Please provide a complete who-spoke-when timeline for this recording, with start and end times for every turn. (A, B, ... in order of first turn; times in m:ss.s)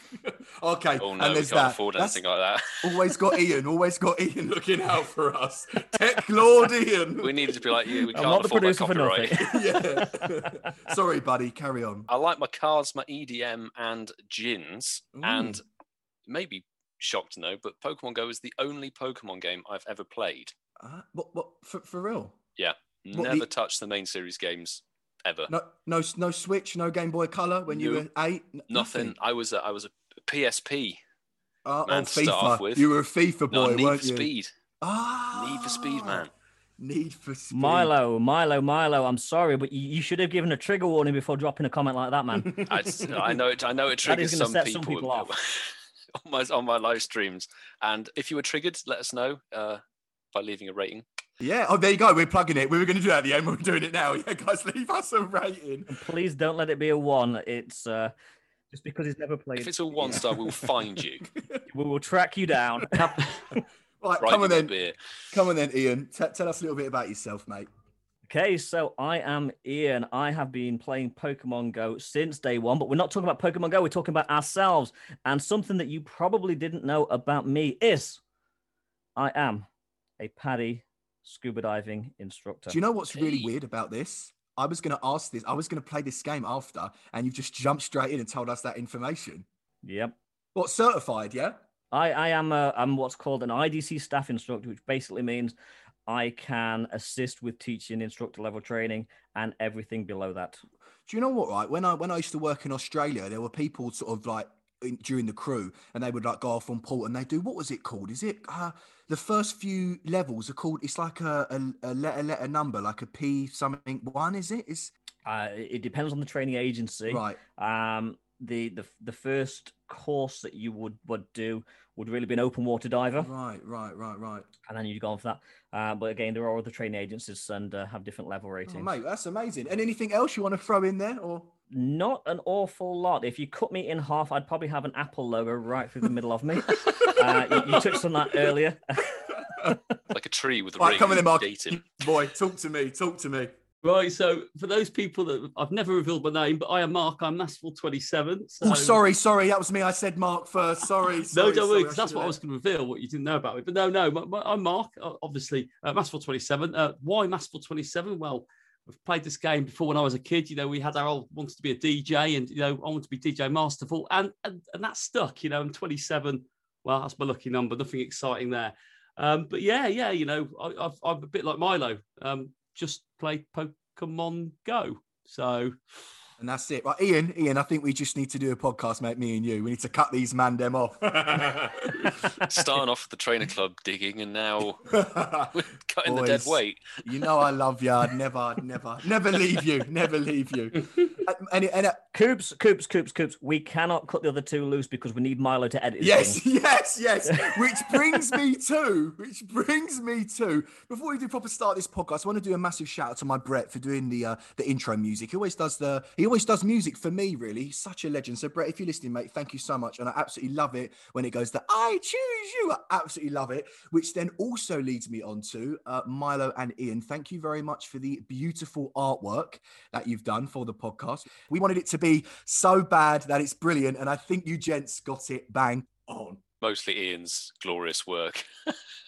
0:00.2-0:02.2 A
0:01.0-0:03.1 B
0:02.8-0:07.6 A
0:07.2-0:09.5 B
0:08.1-0:10.7 C
0:09.4-0:12.1 A
0:12.1-0:15.6 B
0:15.2-0:15.6 A
0:16.3-0:20.5 B
0:20.8-0:22.4 A
0:22.6-0:25.5 B
0:23.2-0:23.5 A
0:25.5-0:29.2 A
0:27.7-0:28.1 B
0:28.7-0:31.0 B
0:31.7-0:34.3 A
0:31.9-0:32.9 B
0:33.5-0:34.5 B
0:34.8-0:36.3 A
0:35.3-0:36.3 B
0:36.8-0:37.9 A
0:37.5-0:42.7 C
0:42.4-0:43.4 A
0:42.7-0:49.8 B
0:44.0-0:45.3 C
0:50.3-0:51.0 B
0:51.4-0:56.0 A
0:55.9-0:58.1 C
0:58.7-1:00.1 C
0:59.6-1:01.3 B
1:00.0-1:00.8 A
1:01.4-1:01.6 A
1:01.7-1:03.3 C
1:02.8-1:04.7 A
1:04.2-1:05.0 B
1:05.3-1:07.7 A
1:08.3-1:18.2 C
1:19.2-1:19.7 C
1:20.2-1:22.8 C
1:22.7-1:29.5 A
1:23.1-1:23.5 B
1:29.8-1:30.2 C
1:30.6-1:31.6 A
1:31.9-1:35.5 C
1:36.1-1:40.6 C
1:41.1-1:54.9 A
1:55.3-2:03.3 C
1:57.1-1:57.4 A
2:03.2-2:04.5 A
2:04.7-2:08.9 C
2:08.7-2:11.5 A
2:11.7-2:19.8 C
2:16.7-2:18.5 A
2:20.1-2:21.9 B
2:20.8-2:23.5 A
2:23.8-2:29.0 D
2:28.6-2:32.4 A
2:31.3-2:55.8 D
2:56.4-3:02.3 A
3:02.4-3:04.9 B
3:04.9-3:12.0 A
3:05.5-3:07.3 B
3:12.1-3:16.4 C
3:16.0-3:46.4 A
3:17.5-3:18.0 C
3:46.6-3:48.4 B